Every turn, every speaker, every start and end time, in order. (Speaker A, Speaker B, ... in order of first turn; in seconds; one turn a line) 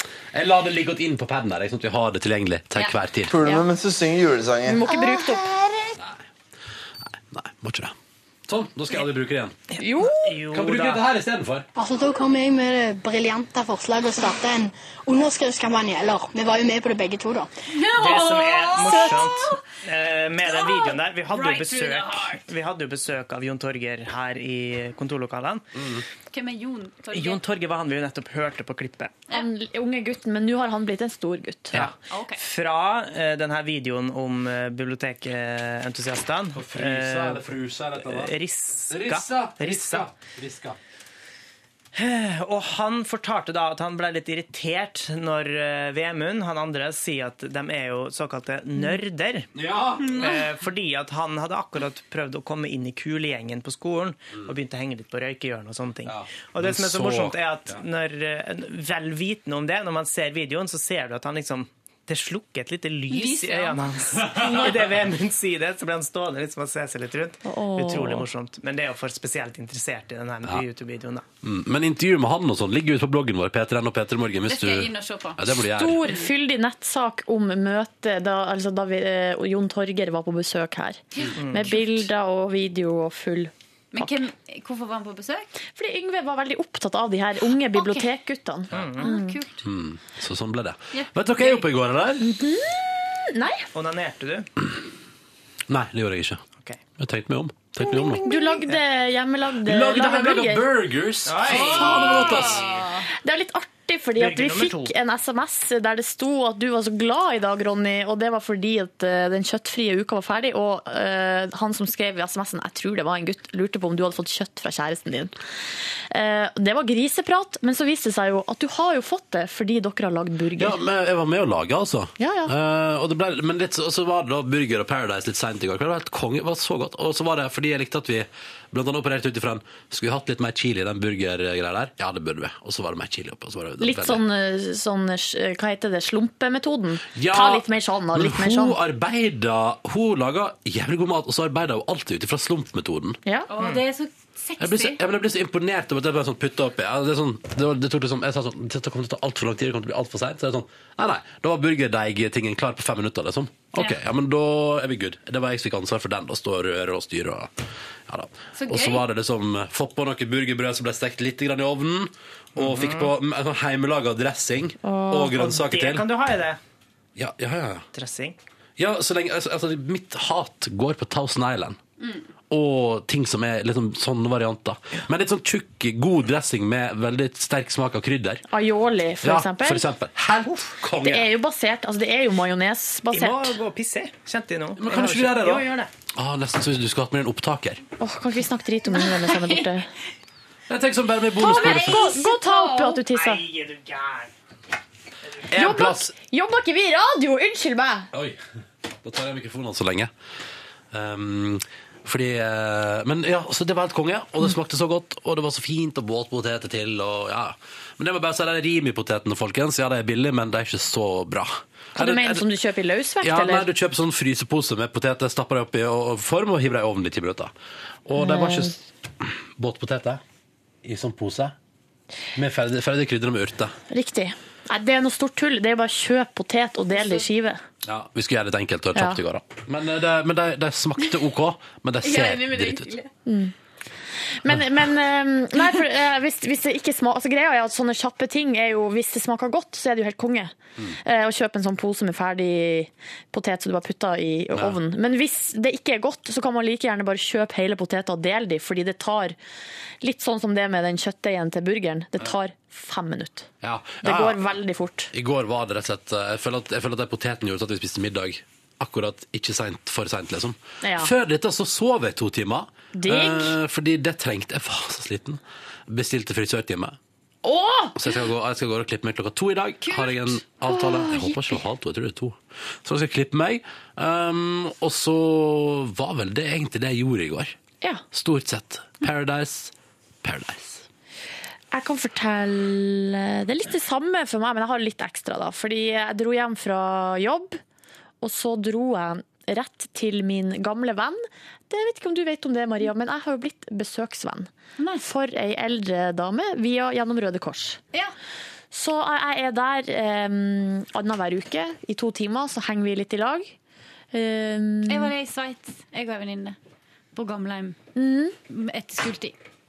Speaker A: 0.3-3.4
Speaker B: 3.3-6.0
Speaker C: 4.7-5.5
Speaker A: 7.1-8.0
Speaker A: 8.5-9.6
Speaker C: 9.8-10.3
Speaker D: 9.8-11.1
Speaker A: 10.5-11.7
Speaker E: 11.8-17.5
Speaker F: 17.8-19.4
Speaker D: 17.9-25.7
Speaker F: 21.3-22.3
Speaker A: 25.8-26.0
Speaker F: 26.3-27.4
Speaker D: 27.1-29.2
Speaker C: 29.3-31.9
Speaker D: 31.8-37.5
Speaker F: 32.1-32.4
Speaker A: 36.5-38.4
Speaker D: 38.0-40.1
Speaker A: 38.9-40.8
Speaker D: 41.9-49.5
Speaker A: 49.5-50.2
Speaker F: 50.0-50.5
Speaker D: 50.1-71.2
Speaker A: 56.0-57.8
Speaker F: 63.1-63.9
Speaker A: 64.2-64.8
Speaker C: 67.5-68.2
Speaker A: 71.4-76.1
Speaker F: 74.5-75.4
Speaker C: 75.8-84.1
Speaker D: 81.3-82.0
Speaker F: 83.9-85.5
Speaker C: 85.7-89.4
Speaker F: 87.7-88.1
Speaker D: 88.7-89.1
Speaker F: 89.0-89.6
Speaker A: 89.6-92.3
Speaker F: 90.9-91.7
Speaker C: 92.2-93.7
Speaker D: 93.7-94.5
Speaker A: 95.7-96.4
Speaker A: 97.0-98.2
Speaker D: 97.8-98.8
Speaker C: 98.2-100.7
Speaker A: 99.6-102.7
Speaker D: 101.2-102.6
Speaker F: 101.5-103.0
Speaker C: 103.1-115.3
Speaker D: 104.2-104.9
Speaker C: 116.1-120.8
Speaker A: 120.6-134.2
Speaker C: 122.2-122.5
Speaker C: 133.8-138.8
Speaker A: 137.2-143.2
Speaker F: 143.5-145.0
Speaker D: 143.6-143.8
Speaker A: 144.6-157.5
Speaker A: 158.1-166.1
Speaker F: 158.6-159.1
Speaker D: 162.6-163.1
Speaker C: 164.8-165.3
Speaker D: 165.3-166.6
Speaker A: 167.2-167.9
Speaker D: 167.9-168.4
Speaker A: 168.8-171.8
Speaker A: 172.5-178.4
Speaker C: 178.5-179.8
Speaker A: 179.2-181.3
Speaker C: 181.0-183.6
Speaker D: 183.1-185.9
Speaker A: 184.8-187.8
Speaker C: 188.0-189.9
Speaker F: 188.9-189.7
Speaker A: 190.7-192.1
Speaker F: 191.4-193.0
Speaker C: 191.4-193.4
Speaker D: 193.1-194.3
Speaker A: 195.5-196.1
Speaker C: 195.5-198.1
Speaker A: 198.1-198.4
Speaker A: 199.0-200.1
Speaker A: 200.9-212.5
Speaker C: 211.9-213.7
Speaker A: 213.2-217.5
Speaker A: 218.1-220.2
Speaker C: 218.2-218.7
Speaker A: 220.8-221.6
Speaker A: 222.3-223.7
Speaker C: 223.9-227.6
Speaker A: 227.8-232.9
Speaker C: 228.9-229.2
Speaker F: 232.0-233.1
Speaker C: 233.3-233.5
Speaker C: 234.4-249.4
Speaker C: 250.0-253.5
Speaker A: 253.6-254.4
Speaker C: 254.0-255.1
Speaker A: 255.1-267.0
Speaker C: 260.8-261.1
Speaker C: 262.9-263.6
Speaker C: 267.4-268.0
Speaker A: 268.0-277.6
Speaker F: 269.8-270.4
Speaker C: 270.7-271.6
Speaker A: 278.1-280.9
Speaker C: 281.7-287.6
Speaker C: 288.2-297.8
Speaker F: 294.8-295.1
Speaker C: 298.7-303.6
Speaker C: 304.1-305.1
Speaker F: 304.9-306.6
Speaker F: 307.1-307.8
Speaker C: 308.0-308.4
Speaker F: 308.5-309.4